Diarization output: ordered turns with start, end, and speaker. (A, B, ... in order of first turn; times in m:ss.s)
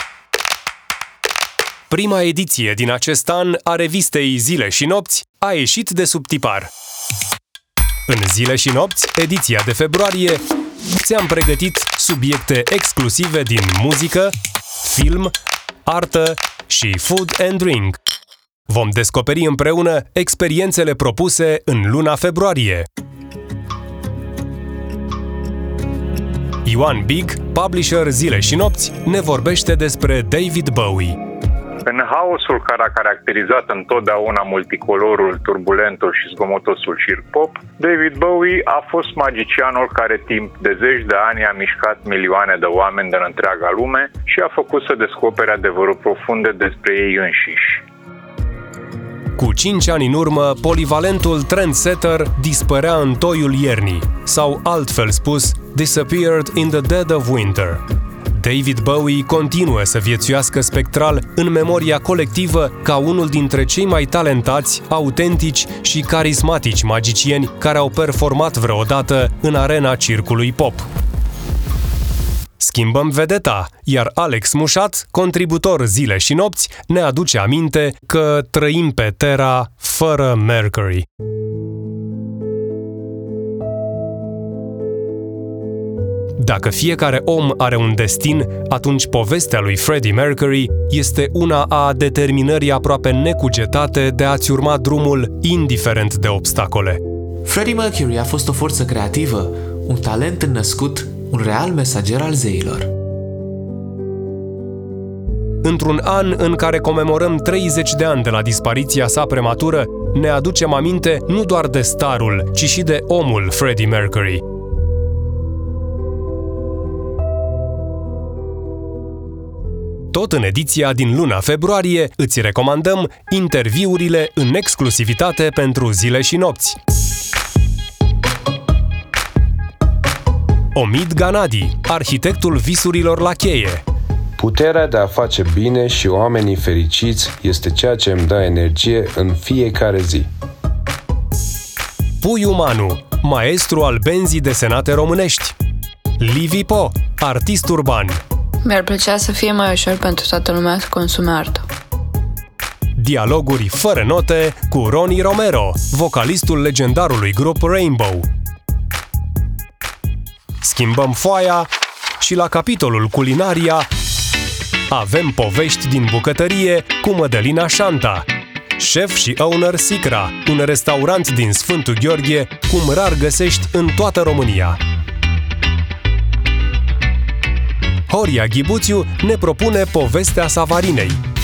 0:01.9-0:06.7 A
0:08.1-0:10.4 A
0:11.0-0:15.3 A
0:15.8-0:18.0 A
0:18.7-0:22.9 A
0:26.6-0:31.2 A
0:31.8-0:47.8 B
0:49.4-1:10.9 A
1:12.6-1:21.0 A
1:26.4-1:37.0 A
1:37.4-1:42.9 C
1:45.6-1:54.4 A
2:00.1-2:06.8 A
2:10.7-2:13.8 A
2:14.4-2:20.3 D
2:22.2-2:25.5 A
2:26.2-2:28.2 A
2:28.6-2:31.6 E
2:33.0-2:38.3 A
2:40.6-2:41.7 A
2:42.2-2:43.9 A
2:44.9-2:54.8 A
2:58.1-3:01.2 A